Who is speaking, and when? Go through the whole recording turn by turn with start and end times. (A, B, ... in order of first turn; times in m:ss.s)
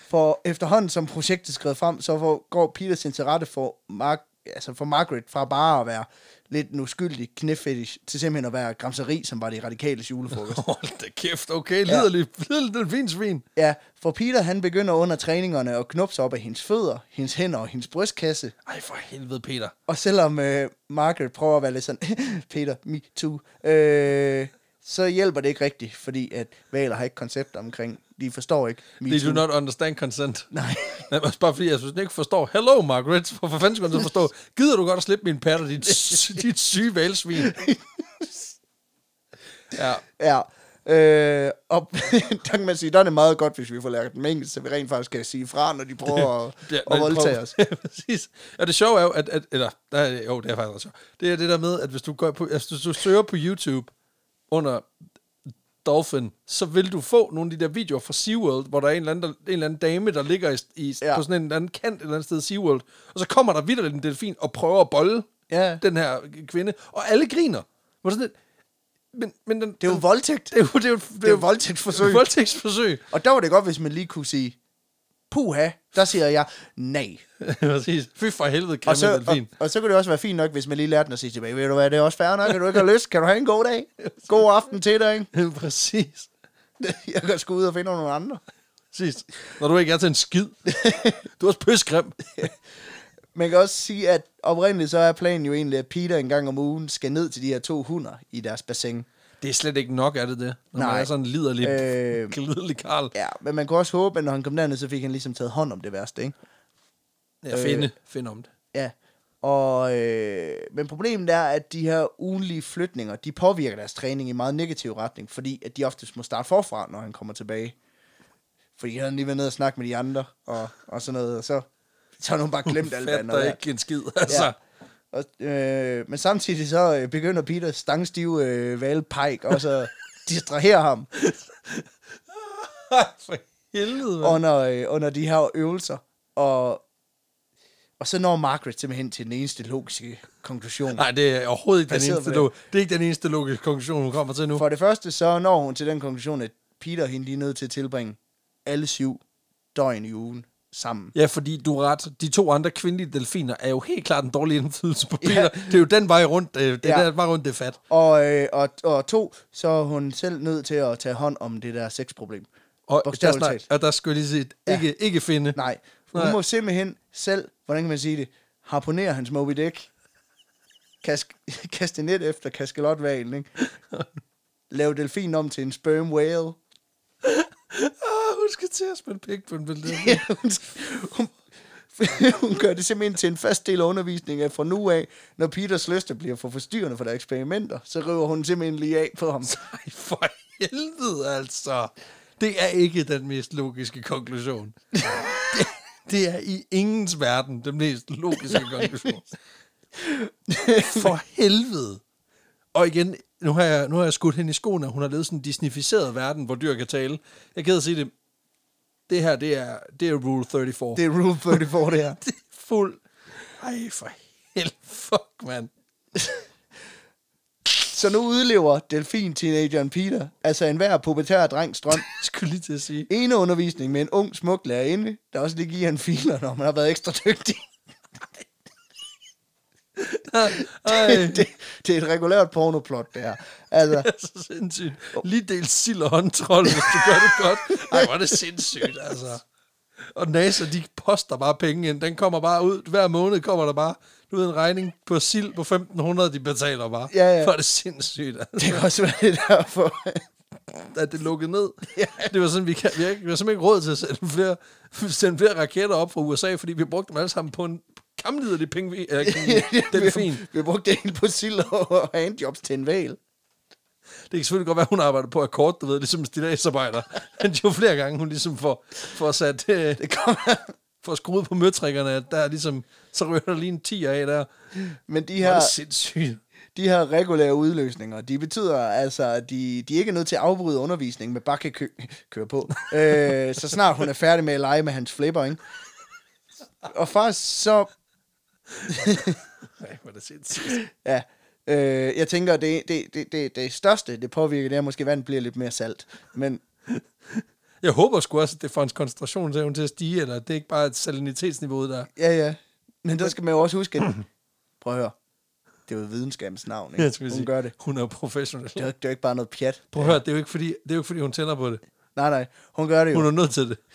0:00.1-0:10.6 A
0:10.3-0:13.4 B
0:13.6-0:18.5 A
0:18.6-0:19.7 B
0:19.9-0:29.4 A
0:29.1-0:30.5 B
0:30.5-0:31.0 A
0:31.1-0:37.5 B
0:35.9-0:36.3 A
0:37.4-0:38.5 A
0:39.7-0:40.0 B
0:40.2-0:47.5 A
0:46.1-0:53.9 B
0:54.5-0:54.9 B
0:55.8-1:08.3 B
1:05.5-1:05.8 A
1:09.1-1:13.0 B
1:09.8-1:10.5 A
1:11.2-1:12.2 A
1:13.1-1:14.6 A
1:15.3-1:17.2 A
1:17.4-1:19.5 B
1:18.8-1:25.3 A
1:25.3-1:26.3 B
1:26.8-1:28.4 A
1:28.9-1:30.7 B
1:30.6-1:31.2 A
1:31.2-1:32.5 B
1:33.3-1:39.0 A
1:39.4-1:43.1 B
1:40.8-1:41.1 A
1:41.6-1:42.3 A
1:43.1-1:46.3 A
1:47.4-1:48.5 B
1:47.5-1:47.9 A
1:48.7-1:57.8 A
1:58.8-2:01.7 A
2:02.2-2:03.6 A
2:02.6-2:04.5 B
2:05.1-2:11.1 A
2:11.1-2:14.4 B
2:14.2-2:16.8 A
2:18.0-2:21.0 A
2:20.9-2:24.6 B
2:21.9-2:22.5 A
2:24.5-2:29.2 A
2:29.7-2:31.1 A
2:31.1-2:37.8 B
2:35.2-2:35.8 A
2:37.9-2:42.5 A
2:42.9-2:45.6 B
2:43.0-2:43.6 A
2:45.5-2:49.9 A
2:51.0-2:53.5 A
2:53.6-2:54.1 B
2:54.7-2:56.6 A
2:57.2-3:00.2 B
2:59.8-3:01.4 A
3:01.9-3:09.5 A
3:09.4-3:19.3 B
3:18.4-3:18.9 A
3:20.0-3:21.1 A
3:20.8-3:22.0 B
3:22.7-3:28.1 B
3:29.1-3:31.7 B
3:31.0-3:32.2 A
3:32.2-3:33.0 B
3:33.6-3:35.7 B
3:36.2-3:36.4 A
3:37.8-3:42.1 A
3:42.0-3:43.1 B
3:43.1-3:47.7 A
3:50.0-3:51.5 B
3:50.5-3:54.1 A
3:53.9-3:59.4 B
3:56.6-3:58.9 A
4:00.1-4:08.9 B
4:07.1-4:07.5 A
4:08.6-4:10.2 A
4:10.9-4:20.4 B
4:11.9-4:12.3 A
4:19.2-4:23.2 A
4:24.3-4:30.0 B
4:30.0-4:30.7 A
4:31.0-4:34.5 B
4:34.9-4:35.7 A
4:35.4-4:36.4 B
4:36.7-4:45.6 A
4:42.8-4:43.3 B
4:46.9-4:47.9 A
4:48.8-4:49.1 B
4:48.9-4:49.4 A
4:49.8-4:50.8 B
4:50.6-4:56.6 A
4:56.9-5:02.1 B
5:02.2-5:04.1 A
5:04.8-5:05.1 A
5:05.9-5:07.7 A
5:07.0-5:08.9 B
5:08.8-5:10.2 A
5:09.9-5:11.8 B
5:12.2-5:13.3 A
5:13.1-5:13.8 B